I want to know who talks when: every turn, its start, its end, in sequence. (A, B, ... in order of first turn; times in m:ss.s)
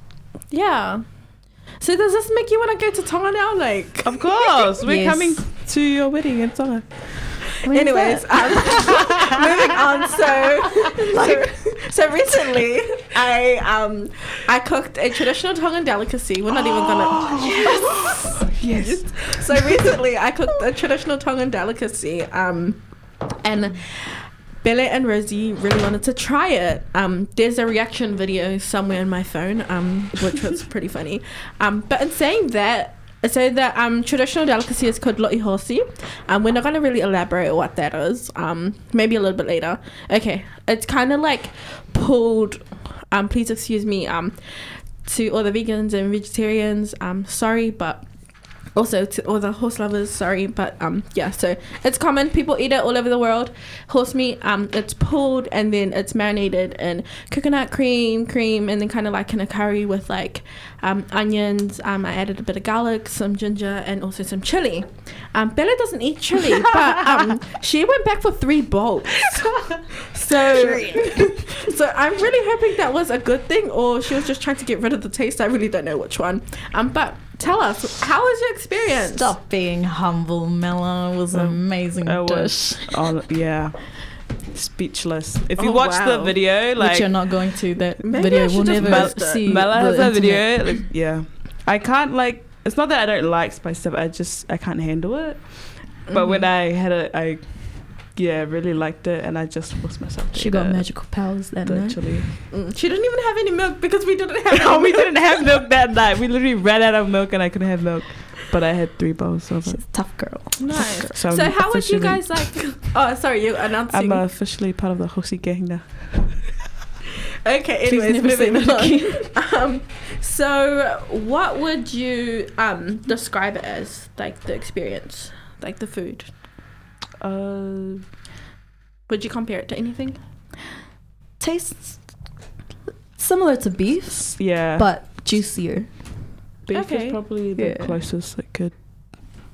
0:00.5-0:04.6 A
0:04.0-0:07.6 B
0:04.8-0:05.4 C
0:07.6-0:08.2 C
0:07.7-0:18.0 A
0:08.9-0:09.3 B
0:11.1-0:11.8 C
0:16.5-0:19.8 B
0:17.4-0:18.0 C
0:18.8-1:19.3 A
1:11.0-1:11.3 C
1:19.1-1:23.0 C
1:21.3-1:27.4 B
1:25.6-1:26.6 A
1:26.8-1:30.8 C
1:28.0-1:29.5 A
1:28.8-1:42.4 B
1:36.1-1:36.5 A
1:40.3-1:42.0 C
1:42.1-1:45.6 A
1:44.5-1:52.8 B
1:49.6-1:51.2 C
1:50.6-1:54.2 A
1:53.9-1:56.5 B
1:57.4-2:06.4 A
1:57.8-1:59.3 C
2:07.2-2:08.0 B
2:09.1-2:10.2 A
2:11.4-2:12.4 C
2:13.2-2:16.3 C
2:14.4-2:15.1 B
2:16.6-2:19.3 B
2:16.7-2:17.3 A
2:17.5-2:18.0 C